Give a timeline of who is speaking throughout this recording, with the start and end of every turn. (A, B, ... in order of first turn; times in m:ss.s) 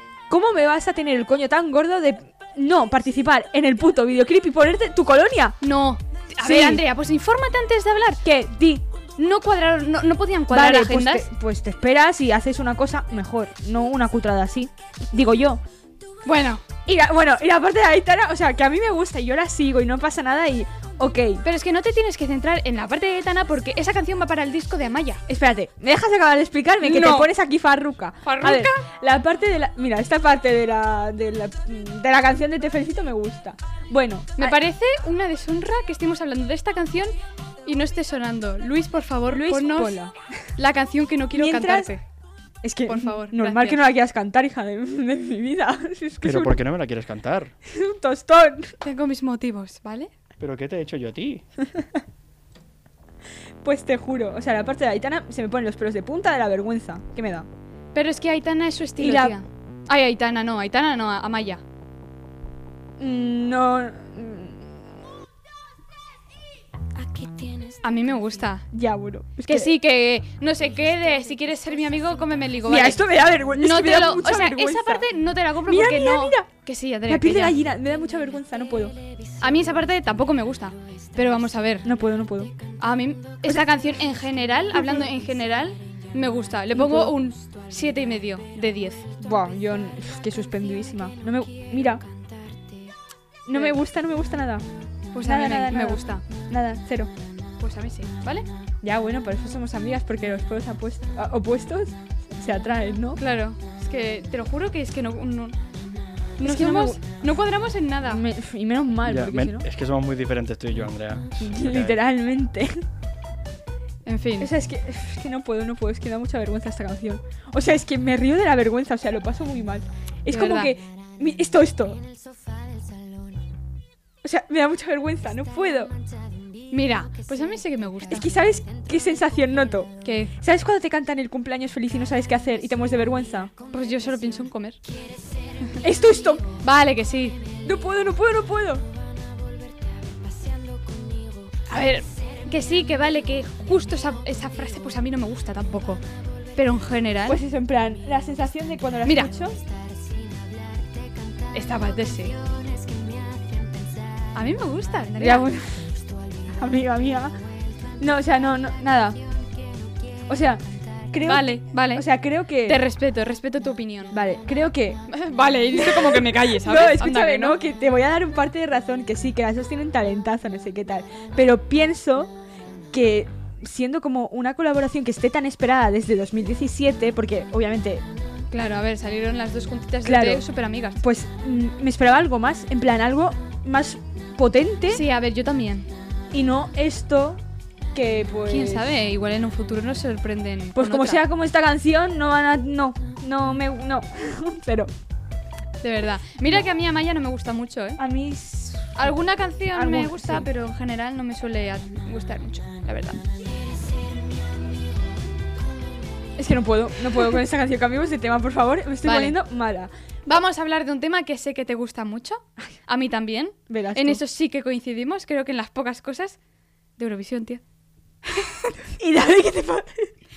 0:00.3-0:05.6 A
0:05.6-0:08.2 B
0:06.4-0:06.8 A
0:08.2-0:08.8 A
0:09.2-0:11.3 B
0:10.5-0:15.6 A
0:16.2-0:16.6 B
0:16.8-0:21.4 A
0:21.4-0:25.2 B
0:25.3-0:34.6 A
0:26.8-0:27.3 B
0:28.2-0:28.8 B
0:34.4-0:37.1 B
0:37.6-0:40.0 B
0:39.3-0:40.3 A
0:40.6-0:42.0 B
0:41.3-0:41.9 A
0:42.6-0:46.6 A
0:42.8-0:43.9 B
0:46.2-0:47.5 C
0:47.6-0:48.7 A
0:48.8-0:50.1 B
0:50.4-0:51.4 C
0:53.6-0:57.5 A
0:57.9-1:01.6 B
0:59.0-0:59.4 A
1:03.0-1:04.7 A
1:07.0-1:07.5 A
1:07.8-1:08.7 B
1:08.7-1:09.7 A
1:09.5-1:13.0 B
1:12.6-1:15.1 A
1:13.5-1:17.6 B
1:15.6-1:16.5 A
1:17.1-1:19.0 A
1:19.4-1:21.9 B
1:21.8-1:22.5 A
1:22.8-1:29.1 B
1:24.7-1:25.1 A
1:26.7-1:27.2 A
1:29.2-1:32.0 A
1:33.4-1:34.6 A
1:33.5-1:33.8 B
1:35.1-1:36.2 B
1:35.2-1:37.1 A
1:37.6-1:38.5 B
1:38.8-1:43.2 A
1:43.2-1:45.6 B
1:46.4-1:48.2 B
1:46.4-1:47.0 A
1:48.1-1:49.6 A
1:49.0-1:52.0 C
1:51.4-1:52.8 A
1:54.0-1:54.5 B
1:54.4-2:02.0 A
2:00.3-2:00.7 B
2:04.2-2:05.9 A
2:06.7-2:08.3 B
2:08.1-2:13.5 A
2:10.0-2:10.3 B
2:13.7-2:14.8 B
2:15.8-2:16.5 A
2:16.6-2:17.4 B
2:17.6-2:18.8 A
2:21.7-2:26.0 B
2:26.6-2:27.4 B
2:27.3-2:29.6 A
2:29.0-2:29.3 B
2:31.5-2:32.4 B
2:34.3-2:35.5 B
2:35.2-2:35.9 A
2:36.5-2:37.4 A
2:38.0-2:39.2 A
2:40.3-2:42.8 A
2:41.2-2:42.0 B
2:42.6-2:44.2 B
2:44.1-2:45.0 A
2:45.1-2:47.6 B
2:45.7-2:52.3 A
2:52.9-2:58.0 A
2:58.5-3:01.0 B
3:00.0-3:00.4 A
3:01.0-3:05.0 A
3:04.9-3:05.9 B
3:06.3-3:07.4 A
3:07.9-3:08.9 A
3:08.5-3:11.2 B
3:10.7-3:14.9 A
3:15.8-3:18.0 B
3:18.0-3:19.1 A
3:18.9-3:23.2 B
3:19.7-3:20.5 A
3:26.4-3:29.9 A
3:29.0-3:29.4 B
3:30.3-3:36.4 B
3:33.7-3:34.2 A
3:37.0-3:37.6 B
3:38.2-3:38.8 B
3:39.0-3:40.1 A